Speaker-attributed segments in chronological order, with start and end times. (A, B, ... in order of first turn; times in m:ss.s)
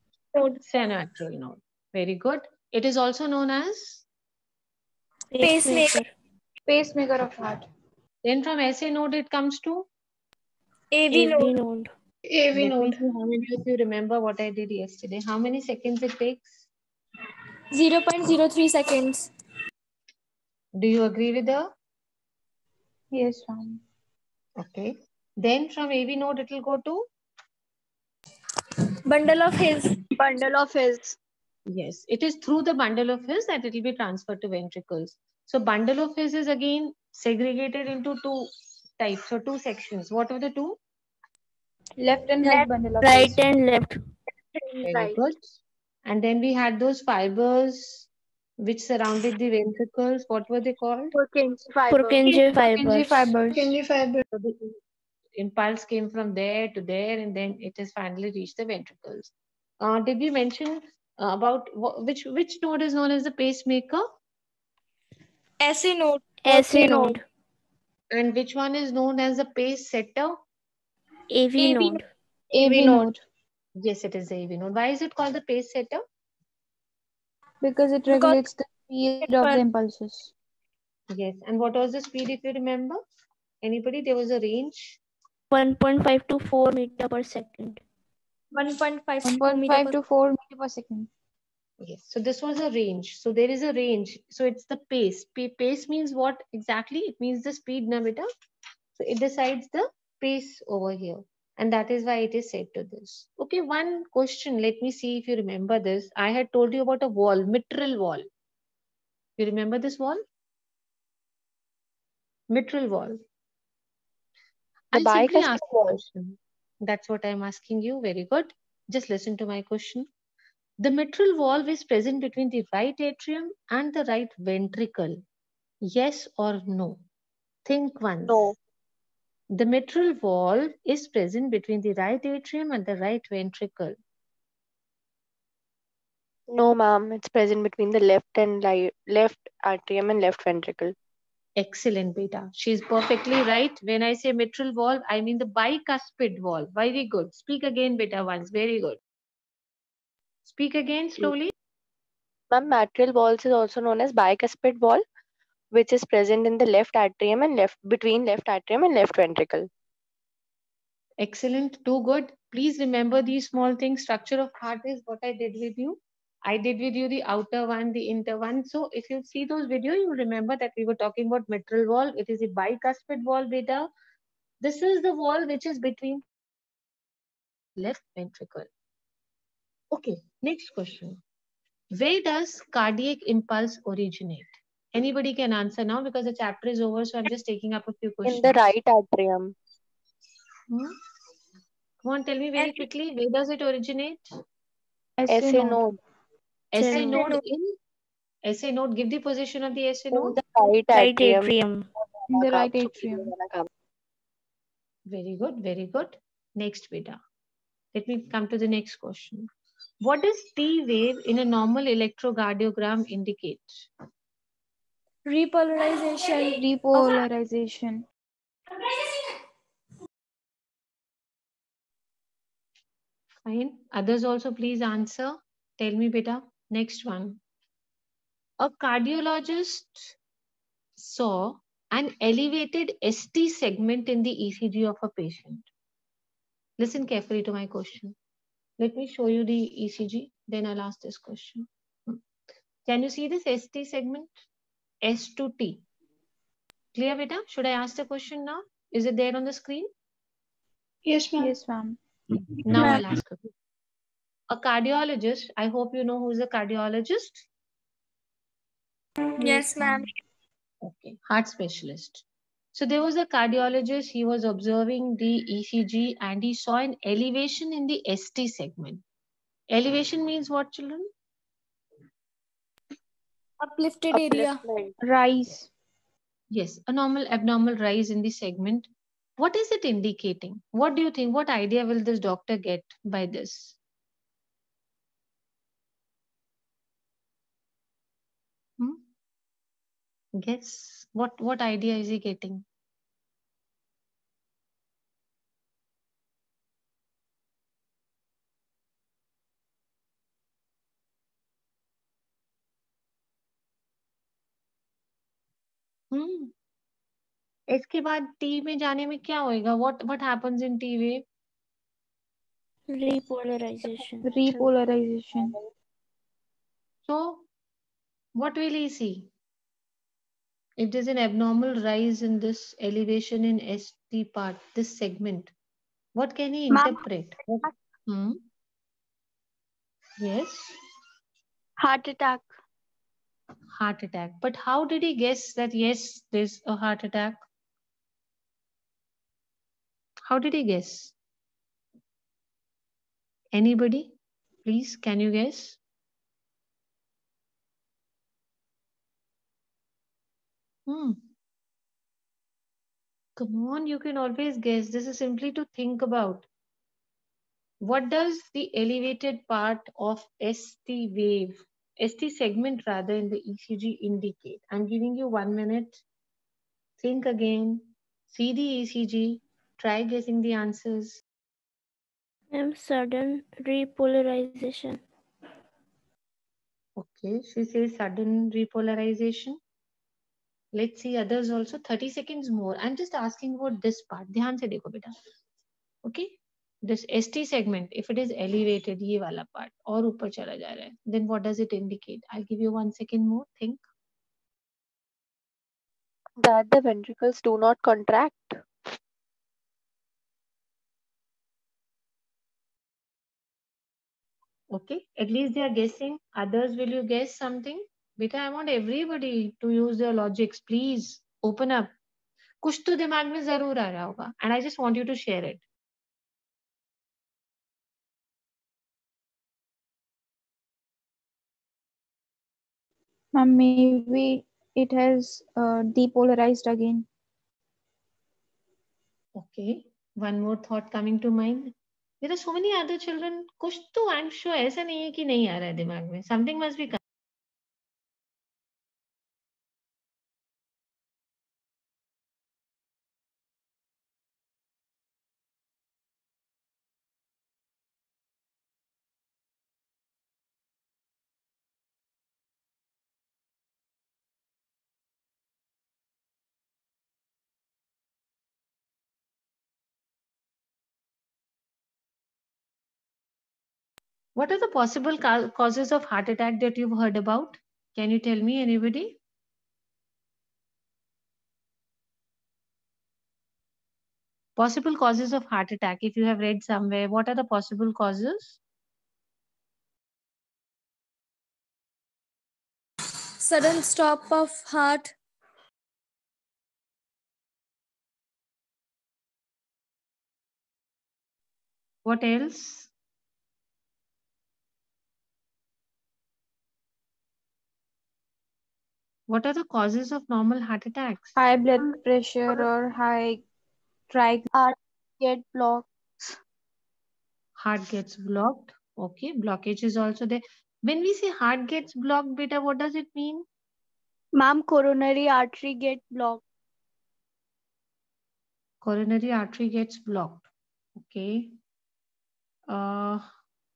0:00.4-0:04.0 A
0:05.3-0:06.1 B
0:05.4-0:06.0 C
0:06.7-0:07.7 D
0:08.2-0:09.9 A
0:10.9-0:11.5 C
0:11.1-0:11.9 B
0:12.3-0:13.0 E
0:12.5-0:16.6 A
0:17.7-0:19.3 C
0:20.8-0:21.7 A
0:23.1-0:23.8 D
0:24.6-0:27.1 A
0:29.1-0:29.9 C
0:30.2-0:31.2 F
0:31.7-0:40.8 A
0:42.0-0:43.4 D
0:42.4-0:44.0 B
0:44.5-0:45.2 F
0:44.8-0:48.1 A
0:48.6-0:51.1 A
0:51.1-0:52.3 F
0:51.9-0:53.3 B
0:52.5-0:53.7 D
0:53.5-0:54.2 E
0:54.3-0:54.8 A
0:55.4-1:04.1 A
1:05.6-1:07.2 C
1:06.4-1:07.2 B
1:08.1-1:10.4 A
1:11.3-1:12.1 B
1:11.6-1:12.0 C
1:12.5-1:13.2 D
1:12.6-1:13.1 A
1:13.8-1:16.0 A
1:17.6-1:20.3 D
1:18.1-1:18.4 C
1:19.2-1:19.6 C
1:21.1-1:23.0 A
1:23.6-1:25.0 A
1:25.5-1:27.8 B
1:28.5-1:30.0 C
1:29.2-1:31.1 D
1:31.8-1:38.3 A
1:39.0-1:48.3 A
1:49.4-1:50.2 A
1:52.5-1:53.2 A
1:54.9-1:56.0 G
1:54.9-2:00.1 A
2:00.8-2:05.2 A
2:05.8-2:07.0 A
2:07.7-2:08.5 A
2:08.3-2:08.6 G
2:09.5-2:14.0 A
2:16.5-2:21.0 G
2:21.6-2:29.0 A
2:30.4-2:31.5 A
2:32.5-2:35.0 G
2:35.7-2:39.7 G
2:41.2-2:53.9 A
2:54.6-2:56.2 A
2:57.8-2:58.7 A
2:59.9-3:01.2 A
3:02.0-3:08.6 A
3:08.2-3:09.5 G
3:12.0-3:14.2 A
3:12.6-3:12.8 C
3:15.2-3:15.8 D
3:15.3-3:16.0 G
3:16.7-3:17.8 A
3:16.7-3:17.4 B
3:16.8-3:17.4 C
3:18.4-3:20.4 A
3:20.1-3:21.5 G
3:20.9-3:21.9 B
3:22.3-3:23.3 D
3:22.3-3:23.7 G
3:25.1-3:27.2 A
3:27.9-3:29.5 A
3:30.0-3:33.9 A
3:35.3-3:37.2 C
3:36.5-3:38.0 D
3:43.4-3:47.4 A
3:48.6-3:50.2 A
3:51.0-3:55.7 A
3:56.8-3:58.2 A
3:58.8-4:02.2 A
4:02.9-4:04.4 A
4:05.0-4:05.8 A
4:06.9-4:09.9 A
4:11.0-4:11.5 E
4:11.4-4:12.0 D
4:12.6-4:13.5 A
4:14.5-4:17.5 A
4:19.4-4:20.1 C
4:19.4-4:19.9 D
4:20.8-4:22.2 A
4:22.8-4:29.0 A
4:29.7-4:31.1 A
4:33.6-4:34.6 C
4:34.1-4:34.9 G
4:35.0-4:35.7 D
4:36.5-4:43.8 A
4:48.8-4:49.0 A
4:50.4-4:52.6 A
5:06.1-5:06.5 A
5:07.7-5:11.2 A
5:12.9-5:14.6 B
5:14.2-5:15.5 D
5:17.1-5:17.5 A
5:18.4-5:19.3 A
5:20.8-5:25.5 A
5:26.2-5:28.4 A
5:26.7-5:27.7 F
5:30.2-5:30.8 A
5:31.8-5:32.6 F
5:33.8-5:37.4 A
5:40.3-5:41.1 A
5:43.5-5:44.1 A
5:44.6-5:45.8 A
5:50.9-5:51.3 A
5:53.4-5:56.5 A
5:57.8-6:06.0 A
6:07.0-6:11.2 A
6:12.5-6:15.0 B
6:17.0-6:19.6 A
6:20.7-6:25.1 A
6:26.0-6:33.8 A
6:36.4-6:38.6 G
6:44.7-6:51.9 A
6:52.6-6:55.6 A
7:03.3-7:07.1 D
7:09.4-7:17.0 A
7:44.4-7:49.2 A
7:54.6-7:58.6 A
8:03.4-8:05.1 C
8:12.0-8:12.9 A
8:19.3-8:21.3 A
8:21.4-8:23.4 D
8:24.1-8:24.5 D
8:24.5-8:26.4 F
8:27.6-8:33.5 A
8:34.4-8:36.4 F
8:38.8-8:41.6 A
8:42.7-8:43.3 A